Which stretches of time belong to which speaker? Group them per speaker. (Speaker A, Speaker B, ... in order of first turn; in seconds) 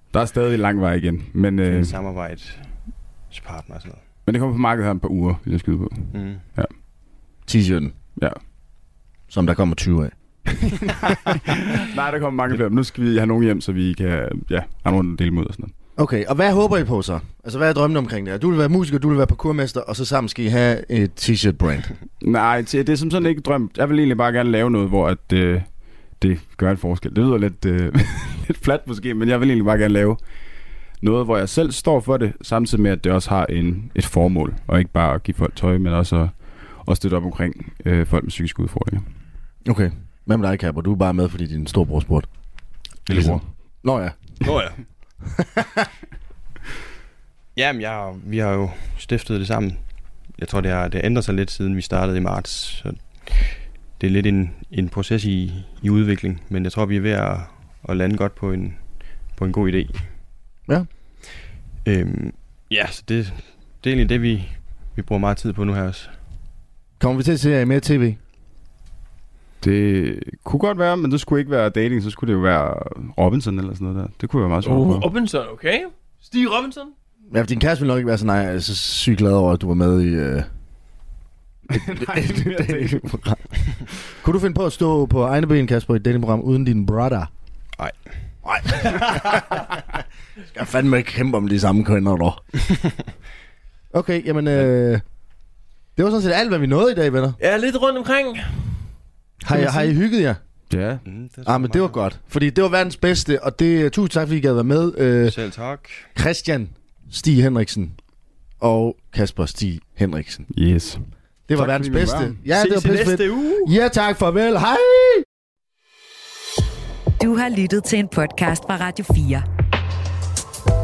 Speaker A: 0.1-2.0, 4.2-6.7, 10.5-15.7, 22.2-30.2, 31.0-39.0, 43.1-43.4, 69.6-75.1, 81.7-83.0, 100.7-101.0, 110.5-112.4
Speaker B: 1.7-2.7, 3.3-4.0, 6.1-6.4, 44.4-44.8, 47.5-60.1, 61.8-66.1, 101.0-102.0, 105.2-106.1
Speaker C: 7.5-8.0, 9.3-10.1, 15.9-21.9, 39.6-42.3, 43.1-44.5, 45.2-45.9, 67.0-68.2, 77.3-80.5, 81.7-83.4, 84.1-87.3, 88.4-89.8, 90.5-92.4, 93.9-95.0, 96.0-97.4, 99.4-100.4, 101.5-105.3, 106.1-108.0, 108.6-110.5, 111.5-115.2
Speaker D: 74.6-76.9, 97.4-98.5, 99.5-99.9, 112.5-113.7
Speaker E: 117.2-119.4